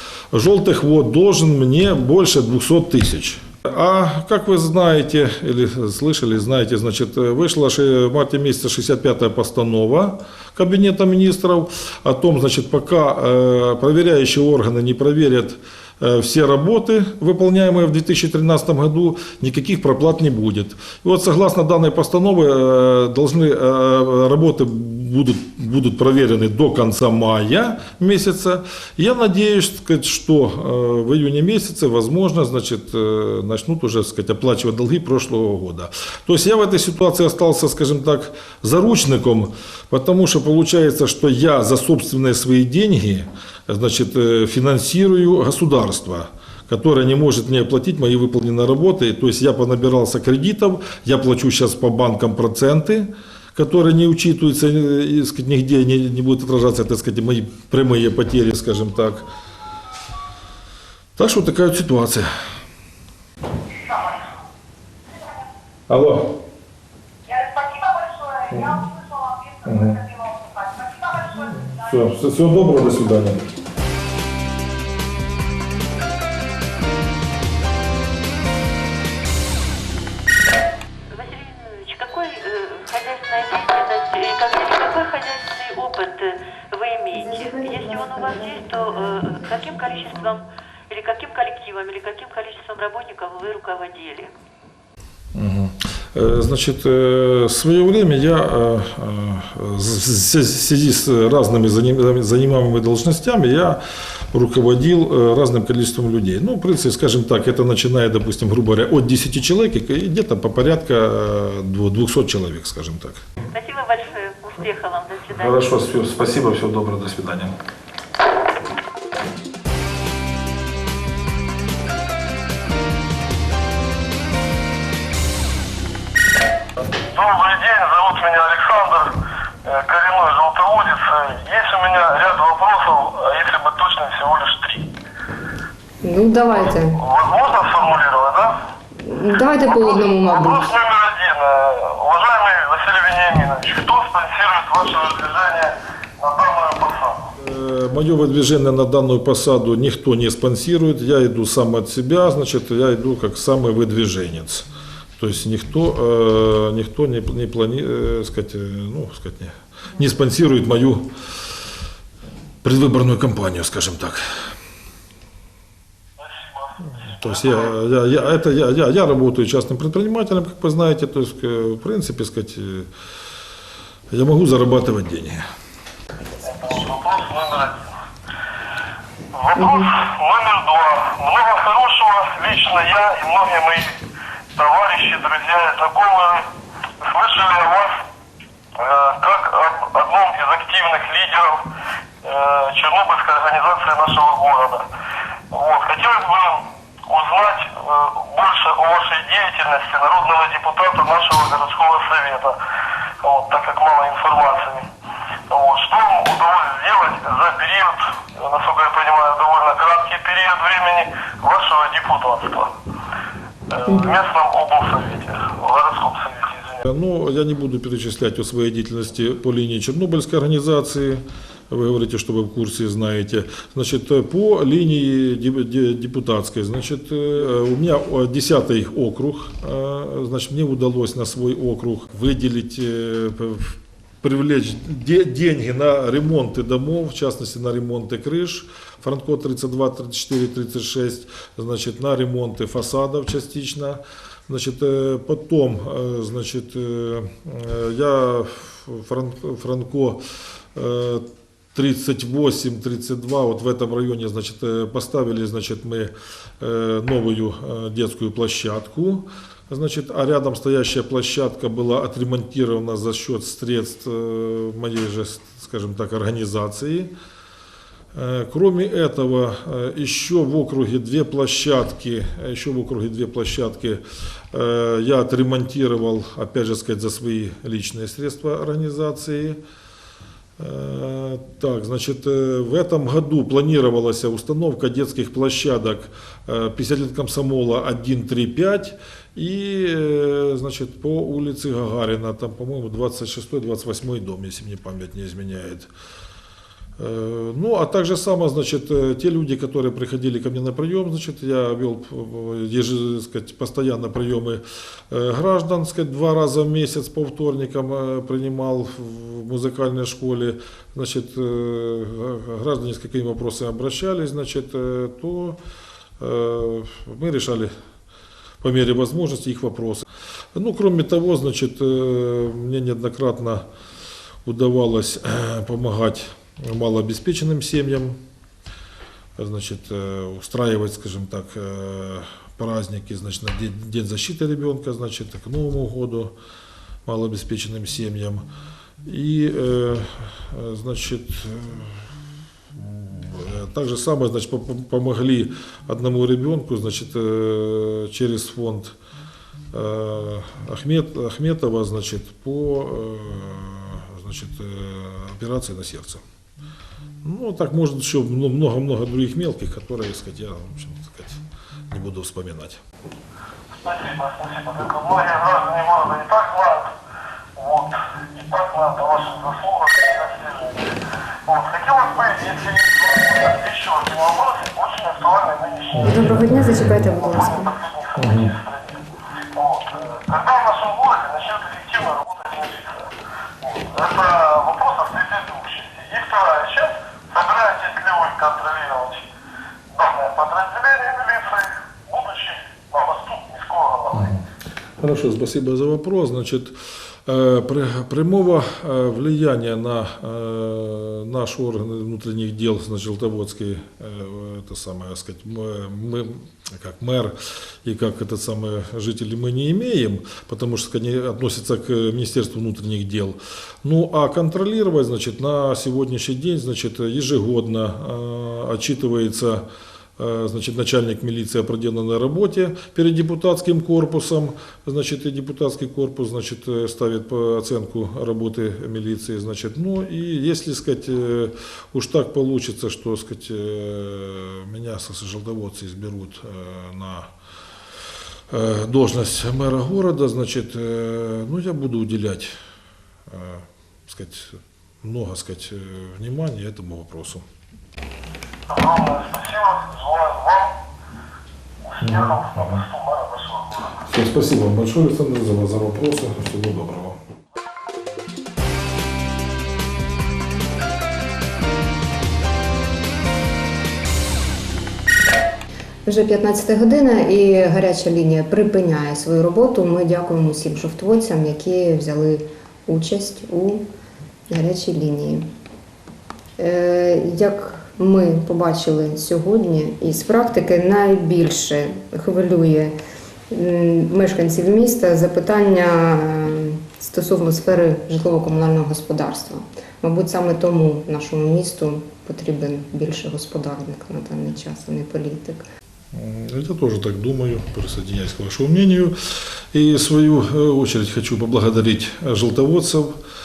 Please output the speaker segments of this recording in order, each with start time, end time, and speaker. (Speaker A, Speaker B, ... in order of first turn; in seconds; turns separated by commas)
Speaker A: 0.3-59.3, Speaker A: 61.2-62.3, Speaker B: 63.8-64.3, Speaker B: 65.1-65.5, Speaker A: 65.9-66.3, Speaker B: 67.3-72.0, Speaker A: 68.5-68.8, Speaker A: 69.7-70.0, Speaker A: 71.4-73.4, Speaker C: 81.1-94.3, Speaker D: 87.1-90.4, Speaker A: 95.3-113.3, Speaker C: 113.5-115.8, Speaker A: 115.3-117.5, Speaker E: 126.8-129.1, Speaker E: 129.7-134.9, Speaker D: 136.0-137.0, Speaker E: 136.5-138.6, Speaker D: 139.1-140.7, Speaker E: 139.6-147.3, Speaker A: 147.4-154.7, Speaker A: 155.2-161.1, Speaker A: 162.6-164.2, Speaker E: 166.2-167.7, Speaker A: 166.9-172.9, Speaker A: 174.1-175.4, Speaker E: 176.4-177.9, Speaker E: 179.3-184.0, Speaker D: 179.6-179.9, Speaker E: 184.6-186.5, Speaker E: 187.0-188.0, Speaker E: 188.8-191.7, Speaker E: 192.2-194.9, Speaker E: 195.5-202.6, Speaker E: 203.2-204.9, Speaker E: 205.5-212.7, Speaker E: 213.7-216.8, Speaker A: 216.9-267.1, Speaker A: 268.1-279.6, Speaker A: 280.6-295.9, Speaker A: 297.0-315.6, Speaker A: 316.2-317.7, Speaker A: 318.6-323.7, Speaker A: 324.4-328.2, Speaker A: 329.4-336.3, Speaker A: 337.1-338.5, Speaker A: 339.0-342.1, Speaker A: 342.8-348.9, Speaker A: 349.7-356.2, Speaker A: 357.2-362.8, Speaker E: 363.8-366.9, Speaker E: 367.6-370.9, Speaker E: 371.4-389.3, Speaker A: 375.9-377.0, Speaker D: 376.0-377.7, Speaker A: 378.2-378.5, Speaker E: 389.9-394.3, Speaker A: 394.1-394.4, Speaker A: 395.0-419.7, Speaker A: 420.2-437.3, Speaker A: 438.5-442.6, Speaker A: 443.3-447.5, Speaker E: 448.7-450.8, Speaker E: 451.8-453.9, Speaker A: 452.0-452.9, Speaker A: 454.1-457.2, Speaker D: 466.1-473.9, Speaker D: 474.5-475.5, Speaker D: 476.6-482.9, Speaker D: 483.5-495.6, Speaker A: 496.1-499.2, Speaker A: 499.7-503.2